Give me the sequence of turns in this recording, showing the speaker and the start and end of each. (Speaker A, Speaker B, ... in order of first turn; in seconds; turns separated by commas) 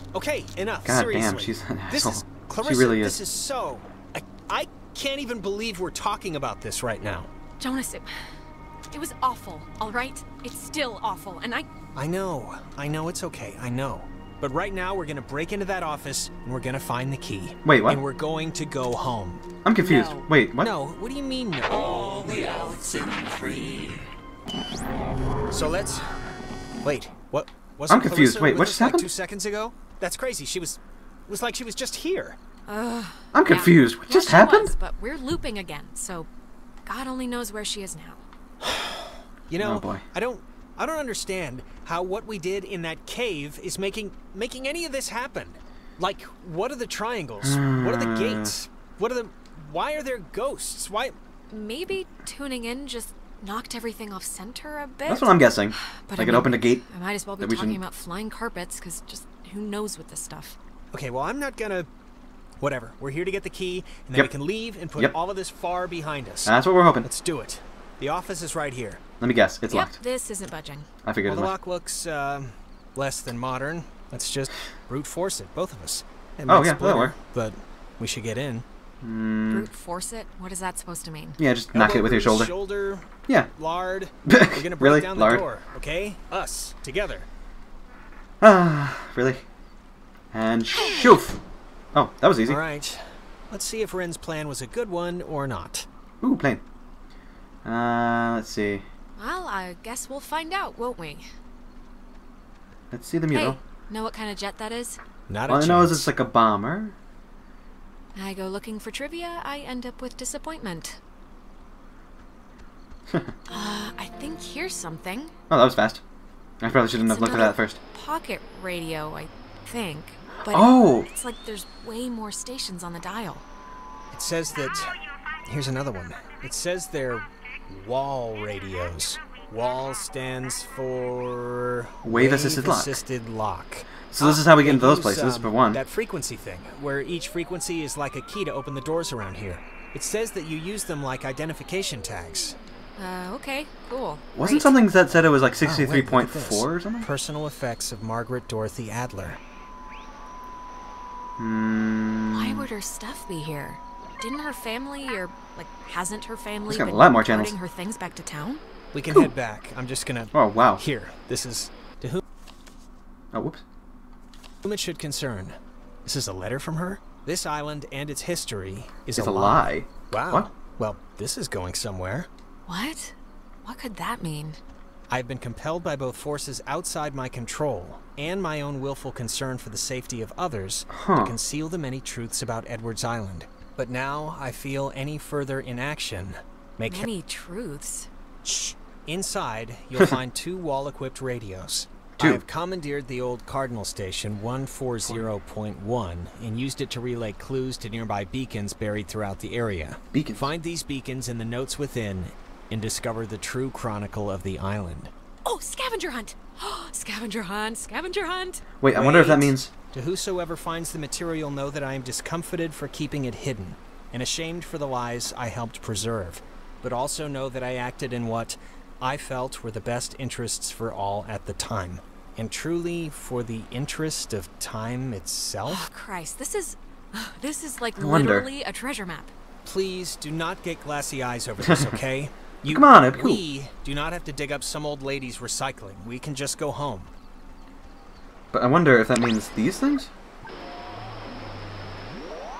Speaker A: 0.1-7.3, Speaker B: 0.8-3.2, Speaker C: 7.6-8.1, Speaker C: 8.9-11.7, Speaker A: 11.9-19.6, Speaker B: 17.6-18.0, Speaker B: 19.8-20.7, Speaker D: 19.8-20.3, Speaker A: 20.5-22.4, Speaker D: 21.9-23.9, Speaker A: 25.5-26.1, Speaker A: 26.8-32.4, Speaker B: 27.9-29.1, Speaker C: 32.7-36.3, Speaker A: 33.4-34.5, Speaker B: 34.4-34.7, Speaker C: 36.9-38.2, Speaker A: 39.5-51.2, Speaker B: 39.6-40.0, Speaker B: 47.4-48.5, Speaker C: 51.5-60.6, Speaker B: 55.1-55.7, Speaker B: 56.3-56.8, Speaker B: 57.5-57.7, Speaker A: 60.9-61.9, Speaker A: 62.6-69.2, Speaker B: 66.5-67.1, Speaker B: 69.2-69.9, Speaker C: 69.7-70.9, Speaker B: 71.0-71.5, Speaker A: 71.3-78.7, Speaker B: 76.5-77.2, Speaker B: 79.0-79.7, Speaker C: 79.5-81.4, Speaker B: 81.4-82.5, Speaker A: 81.7-87.3, Speaker B: 84.3-85.5, Speaker B: 88.4-89.4, Speaker B: 90.3-91.4, Speaker C: 90.9-91.2, Speaker B: 91.9-92.6, Speaker A: 92.4-95.9, Speaker B: 96.2-96.6, Speaker B: 97.6-98.9, Speaker C: 99.2-101.3, Speaker B: 102.9-103.2, Speaker C: 103.3-105.0, Speaker A: 105.3-106.8, Speaker B: 105.5-106.9, Speaker C: 108.2-111.0, Speaker C: 113.5-115.3, Speaker B: 115.5-116.0, Speaker B: 116.6-117.8, Speaker C: 117.0-123.4, Speaker A: 117.2-117.5, Speaker B: 120.6-121.1, Speaker A: 124.1-125.0, Speaker A: 125.5-142.6, Speaker B: 132.1-133.0, Speaker B: 134.0-135.8, Speaker C: 143.0-144.9, Speaker B: 144.6-147.1, Speaker A: 145.6-149.4, Speaker B: 151.4-152.7, Speaker C: 152.3-158.6, Speaker B: 156.8-157.5, Speaker A: 158.9-162.2, Speaker B: 160.3-160.8, Speaker B: 163.3-163.6, Speaker A: 164.6-172.3, Speaker B: 169.2-170.5, Speaker C: 172.7-174.6, Speaker A: 175.1-187.1, Speaker B: 180.9-181.4, Speaker C: 186.9-188.1, Speaker A: 188.4-205.1, Speaker B: 192.2-192.4, Speaker B: 195.1-195.3, Speaker B: 200.1-200.5, Speaker C: 205.4-208.6, Speaker B: 208.8-209.7, Speaker A: 208.9-225.8, Speaker C: 225.7-229.3, Speaker A: 228.0-228.5, Speaker A: 229.6-237.1, Speaker B: 231.6-232.0, Speaker B: 232.7-233.4, Speaker B: 238.5-240.1